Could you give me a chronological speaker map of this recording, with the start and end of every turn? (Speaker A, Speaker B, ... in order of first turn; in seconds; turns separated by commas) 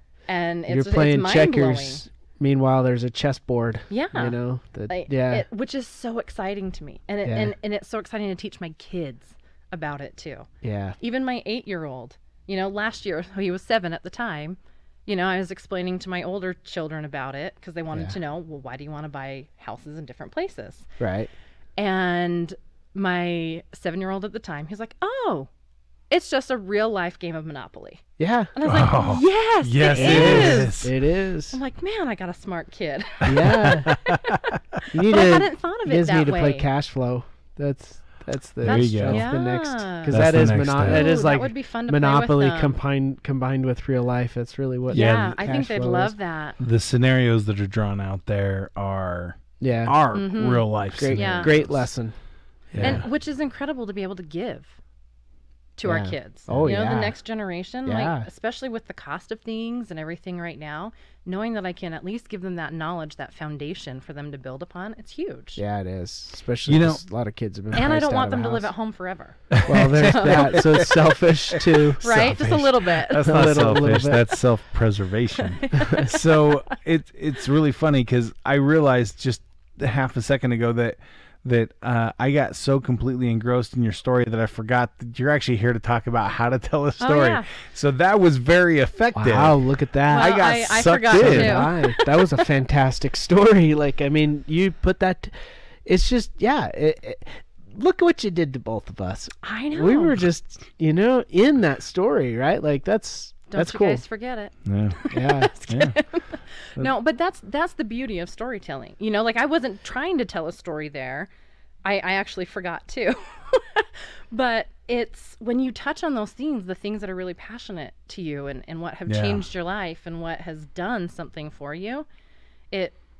Speaker A: 0.3-2.0, Speaker B: 0.7-5.4, Speaker A: 3.9-4.4, Speaker A: 4.9-10.5, Speaker B: 7.2-7.5, Speaker B: 10.6-11.0, Speaker A: 11.0-20.9, Speaker B: 21.0-21.3, Speaker A: 21.8-25.5, Speaker A: 26.1-30.9, Speaker B: 28.2-28.5, Speaker C: 28.6-30.9, Speaker B: 29.9-31.6, Speaker A: 31.5-34.2, Speaker B: 33.2-33.9, Speaker C: 33.6-34.8, Speaker B: 34.9-46.1, Speaker A: 35.1-36.7, Speaker A: 38.6-42.8, Speaker C: 38.6-39.3, Speaker C: 40.1-41.2, Speaker A: 44.9-46.6, Speaker C: 44.9-45.4, Speaker C: 46.6-51.8, Speaker B: 49.6-49.9, Speaker A: 50.1-51.7, Speaker B: 50.9-52.1, Speaker B: 52.7-53.0, Speaker C: 52.7-53.0, Speaker A: 52.8-54.8, Speaker A: 55.8-65.6, Speaker B: 55.8-57.1, Speaker B: 57.8-58.3, Speaker B: 65.5-68.7, Speaker C: 66.7-67.0, Speaker A: 67.7-70.7, Speaker C: 69.5-89.6, Speaker B: 69.6-72.0, Speaker A: 72.0-73.5, Speaker B: 73.2-74.2, Speaker A: 75.4-76.5, Speaker B: 75.7-76.0, Speaker A: 87.0-87.5, Speaker B: 89.1-90.4, Speaker A: 90.1-92.3, Speaker C: 90.1-91.7, Speaker B: 91.1-104.0, Speaker A: 99.4-100.2, Speaker A: 103.5-111.3, Speaker C: 104.7-105.0, Speaker B: 105.1-105.5, Speaker C: 105.7-105.9, Speaker A: 111.8-122.0, Speaker C: 119.1-119.5, Speaker A: 122.7-123.0